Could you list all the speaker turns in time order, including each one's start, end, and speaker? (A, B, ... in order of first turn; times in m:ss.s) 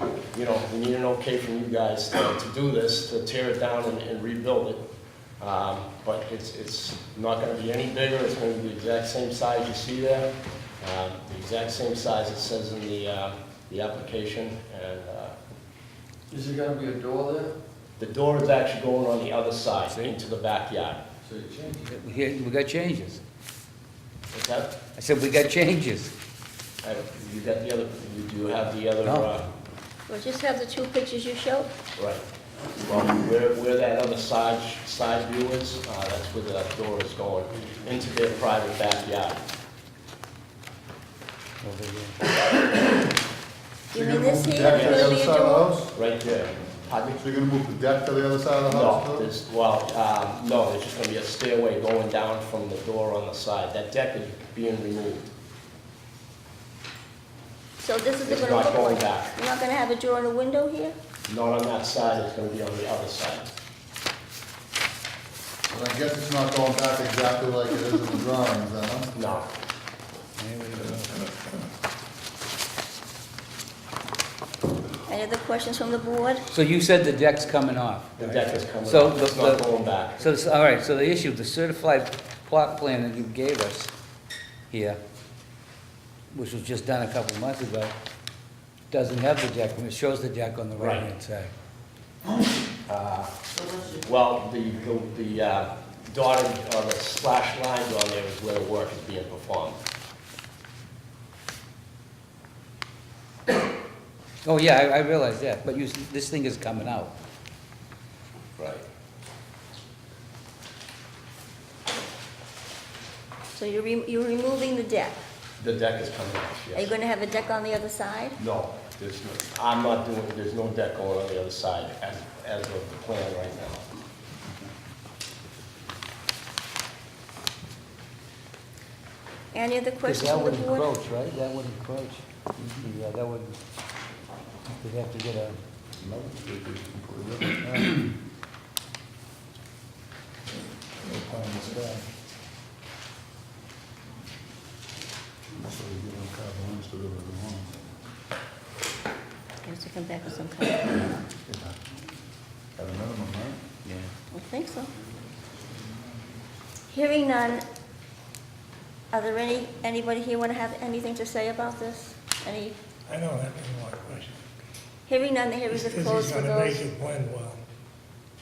0:00.3-0:04.8 A
0:05.4-0:15.4 A
0:16.3-0:17.5 B
0:18.0-0:21.0 A
0:19.8-0:20.1 C
0:21.2-0:21.9 B
0:21.8-0:23.2 C
0:24.3-0:24.7 A
0:25.0-0:26.1 C
0:26.8-0:29.4 A
0:30.1-0:31.7 D
0:32.0-0:32.2 A
0:32.8-0:39.4 A
0:41.6-0:42.2 C
0:43.9-0:45.9 E
0:43.9-0:45.7 D
0:44.6-0:45.2 A
0:45.9-0:47.2 A
0:47.1-0:49.3 E
0:48.7-0:55.3 A
0:57.8-1:00.9 D
0:58.2-0:59.3 A
1:01.3-1:03.5 A
1:05.7-1:09.1 E
1:09.1-1:09.5 A
1:10.4-1:11.3 C
1:15.1-1:16.4 D
1:16.5-1:19.6 C
1:18.2-1:20.2 A
1:20.2-1:23.9 C
1:24.7-1:25.0 C
1:26.3-1:27.9 C
1:28.9-1:31.5 C
1:30.8-1:31.1 A
1:32.9-1:39.8 A
1:44.4-1:47.1 C
1:48.6-1:48.8 A
1:53.5-1:55.2 D
1:55.6-1:56.9 A
1:56.7-1:58.4 D
1:58.4-2:03.8 A
2:09.5-2:10.9 D
2:10.0-2:13.5 C
2:14.8-2:15.6 C
2:16.0-2:18.1 E
2:21.0-2:22.1 E
2:25.5-2:27.7 E
2:29.6-2:31.2 D
2:31.5-2:31.8 E
2:32.8-2:33.6 E
2:33.8-2:34.1 C
2:34.3-2:34.9 D
2:36.9-2:37.6 D
2:39.1-2:42.8 D
2:43.1-2:44.4 F
2:45.1-2:46.8 D
2:45.7-2:47.6 F